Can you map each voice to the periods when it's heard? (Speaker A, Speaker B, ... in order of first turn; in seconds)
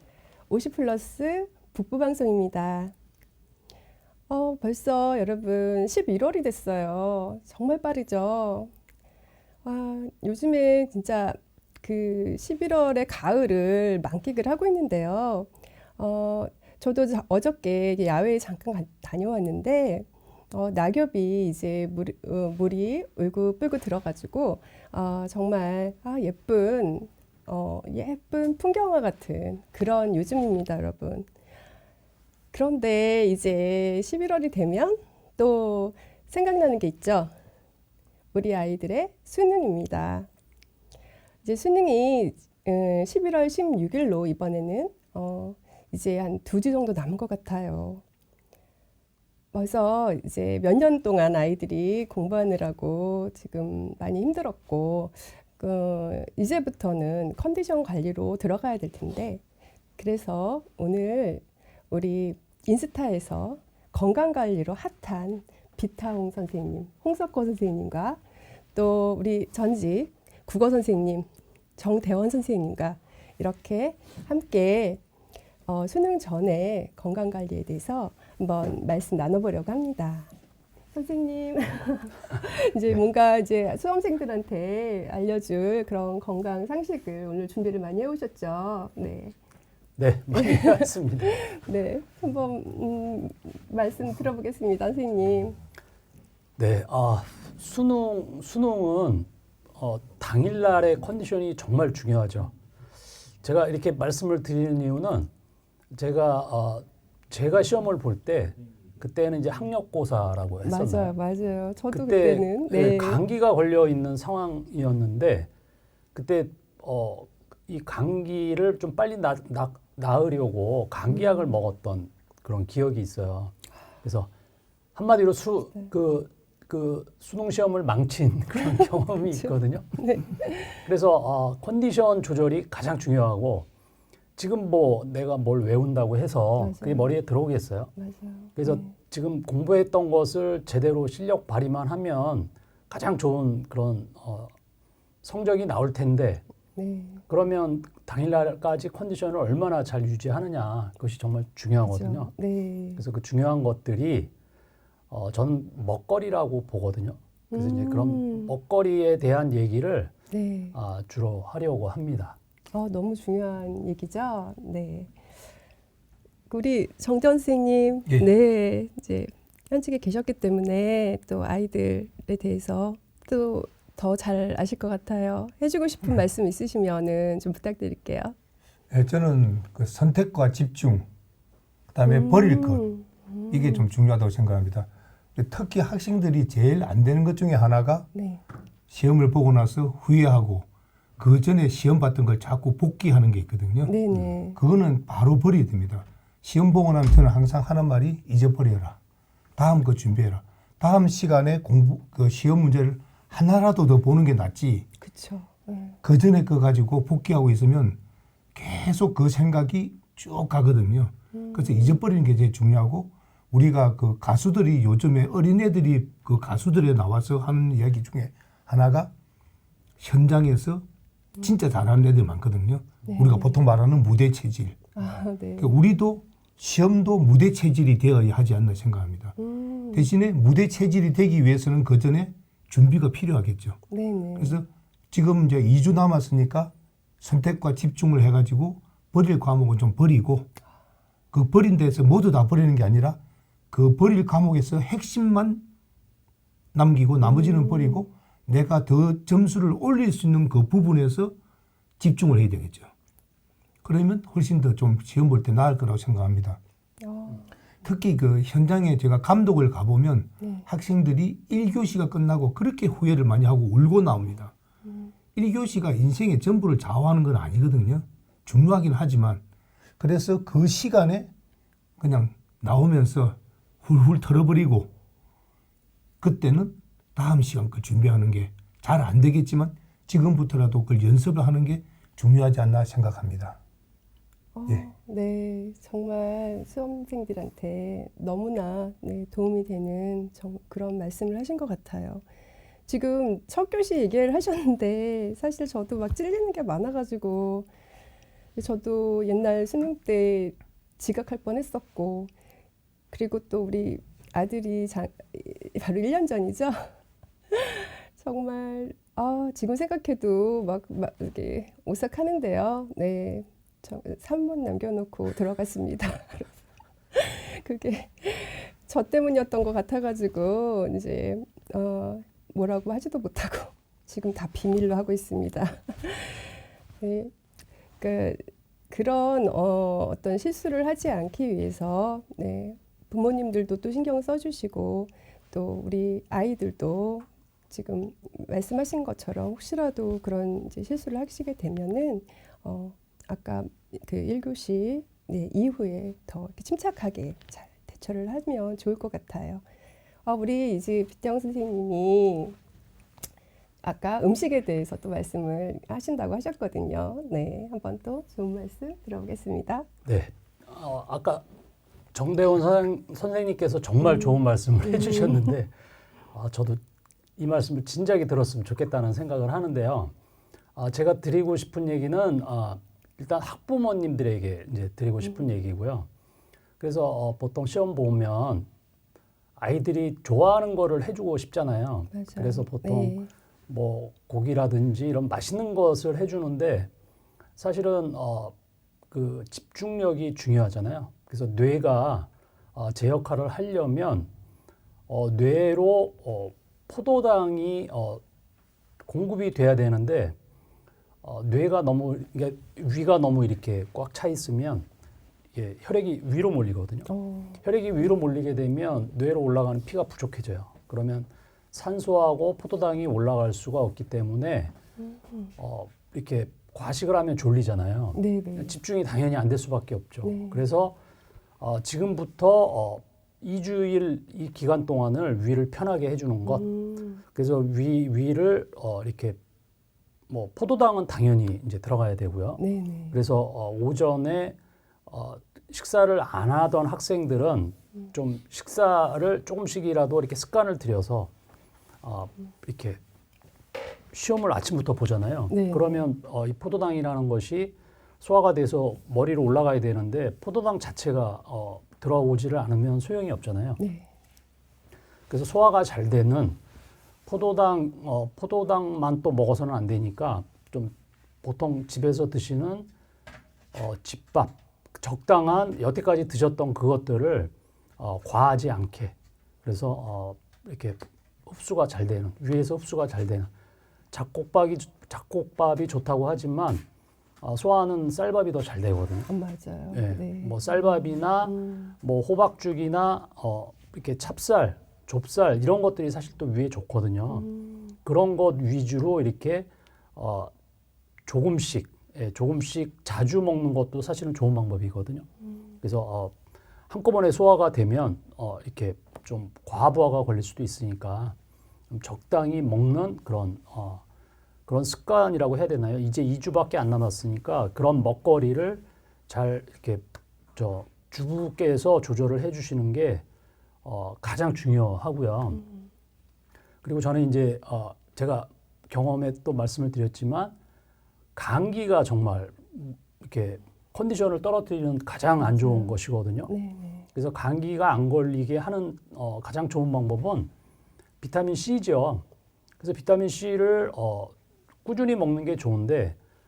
Speaker A: 0.5-2.9, 4.3-8.7, 9.6-31.3, 32.5-37.3, 38.3-40.3, 41.4-48.0, 49.5-59.4, 60.0-68.2, 68.7-75.0, 75.7-80.3, 80.9-89.4, 90.3-95.6, 110.6-113.2, 121.1-121.5, 129.3-130.9, 136.6-137.1, 138.0-138.9, 146.8-147.2, 151.8-153.0, 157.5-158.5, 160.3-160.8, 162.7-165.2, 166.5-178.3, 182.0-183.9, 188.1-188.4, 193.9-194.6, 205.0-206.0, 211.3-212.0, 223.1-223.6, 224.9-225.8, 229.4-230.1, 233.9-234.6, 247.2-248.1, 257.0-257.5, 260.4-260.7, 264.9-265.1, 284.5-292.2, 292.9-297.7, 298.6-302.3, 303.1-306.9, 307.5-316.5, 317.1-327.3, 328.0-349.6, 350.2-352.6, 353.8-359.9, 364.0-365.5, 382.1-383.3, 407.1-407.6, 415.0-415.5, 418.1-418.8, 420.2-420.6, 426.4-427.2, 432.6-433.2, 445.5-446.1, 453.8-454.1, 479.3-481.9, 487.3-487.9, 525.4-525.9, 526.5-527.1
Speaker B: 90.0-91.4, 96.6-102.5, 103.4-105.3, 105.9-111.1, 111.9-115.5, 116.1-124.3, 125.0-130.0, 130.8-133.7, 134.4-137.9, 138.6-144.5, 145.2-146.4, 147.3-152.3, 153.0-154.3, 155.1-160.1, 160.7-162.4, 360.1-361.4, 362.1-365.7, 366.3-366.8, 367.4-370.1, 370.8-376.1, 376.8-378.7, 379.6-386.9, 387.6-388.5, 389.1-394.3, 395.1-398.2, 399.1-400.4, 401.2-404.9, 405.6-414.7, 415.6-420.9, 421.6-426.7, 427.3-429.4, 430.3-441.3, 442.0-443.0, 444.1-453.8, 455.3-456.6, 457.2-462.9, 463.7-473.5, 474.1-476.8, 477.4-479.3, 479.9-487.5, 488.1-490.5, 491.2-495.2, 495.8-496.3, 496.9-501.4, 501.9-504.0, 504.7-513.2, 513.8-515.6, 516.8-520.5, 521.4-526.5, 527.1-530.5, 531.2-532.2, 532.8-534.3, 534.8-536.1
Speaker C: 178.9-181.1, 181.9-182.8, 183.5-188.1, 188.9-190.7, 191.2-199.0, 199.6-204.9, 206.0-208.0, 208.6-219.1, 220.0-220.8, 221.4-229.4, 229.9-233.8, 234.4-240.5, 241.3-243.2, 243.7-245.6, 246.7-251.3, 252.0-252.9, 253.8-256.6, 257.8-264.5, 265.4-269.4, 270.0-271.3, 272.0-274.9, 276.2-283.6